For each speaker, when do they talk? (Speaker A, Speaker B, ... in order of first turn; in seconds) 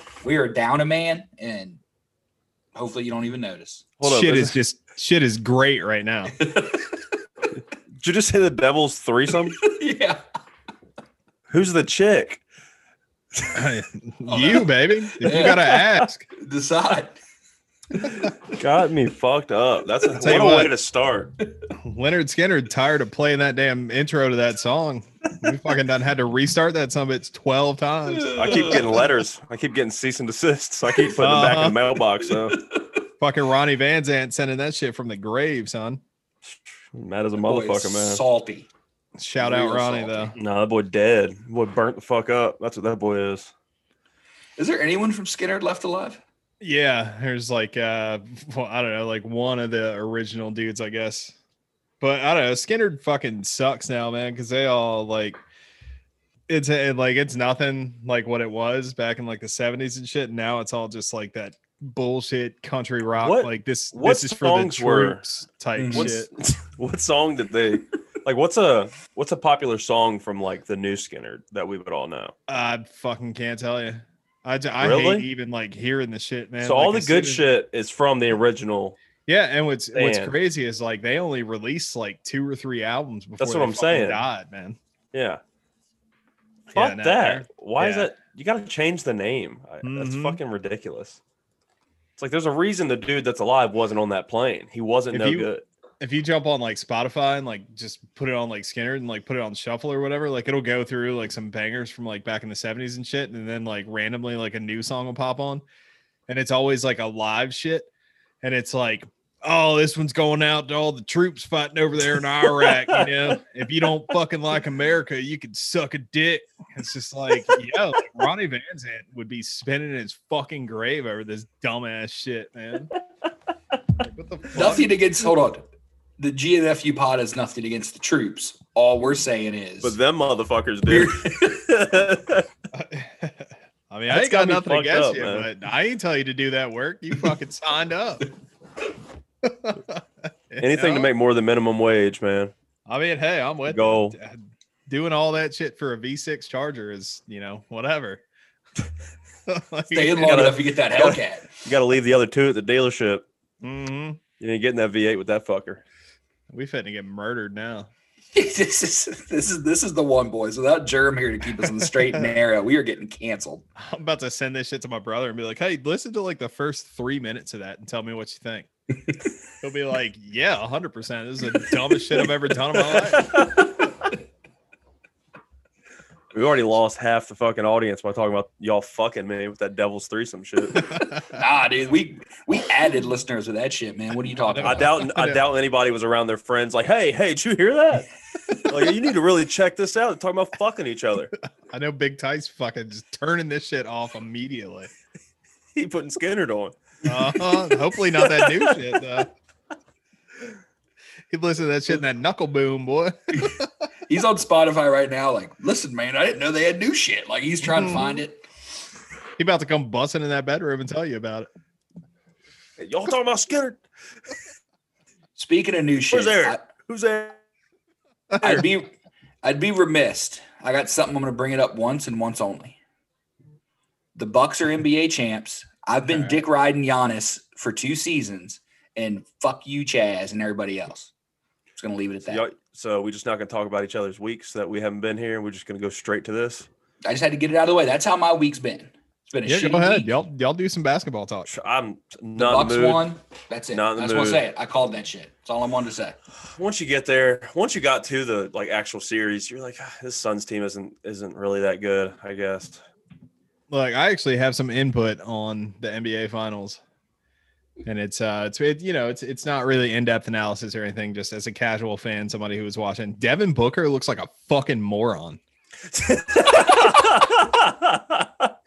Speaker A: 0.2-1.8, 2.8-3.9, 6.4-6.9, 9.6-10.2, 14.3-15.7, 16.4-17.2, 28.1-29.1, 37.4-38.7, 39.4-40.4, 44.6-46.2, 65.8-66.1, 124.5-125.7, 126.2-130.0, 130.9-131.6, 149.9-151.5, 158.3-163.7, 181.3-185.0, 204.1-208.4, 215.4-216.7, 218.4-222.8, 224.2-231.1, 231.8-232.5, 237.1-240.2, 242.4-246.2
Speaker B: 4.0-4.6, 8.0-9.6, 11.5-12.4, 15.3-15.8, 18.0-21.3, 28.3-32.6, 36.5-38.2, 40.4-43.5, 63.2-65.2, 65.9-72.3, 74.8-75.3, 76.6-79.0, 80.0-80.3, 83.4-84.2, 85.1-85.4, 86.7-91.2, 92.2-95.6, 112.6-113.1, 129.8-132.5, 134.1-135.5, 140.6-142.5, 143.7-144.2, 150.2-153.3, 154.4-155.8, 172.9-173.7, 176.3-180.9, 184.6-191.3, 195.8-196.8, 198.2-198.8, 212.8-213.8, 216.1-217.4, 232.3-236.7, 241.5-243.1, 243.7-244.4, 246.5-252.8, 265.9-268.2
Speaker C: 4.0-6.3, 13.5-16.2, 20.2-20.7, 21.8-28.8, 31.2-31.9, 33.2-36.0, 39.2-40.3, 46.6-51.4, 52.0-55.4, 56.5-66.3, 72.5-77.5, 79.3-84.8, 86.7-88.1, 89.8-90.4, 95.1-95.5, 96.0-105.6, 106.3-107.9, 108.4-122.9, 124.0-124.9, 132.7-138.3, 139.4-141.1, 142.9-148.2, 149.5-150.5, 153.6-154.2, 156.5-157.9, 163.8-168.7, 169.6-173.3, 184.5-185.4, 191.7-194.9, 197.1-199.3, 201.3-203.7, 207.7-208.2, 209.4-211.5, 239.5-241.5, 253.7-256.8, 257.9-265.4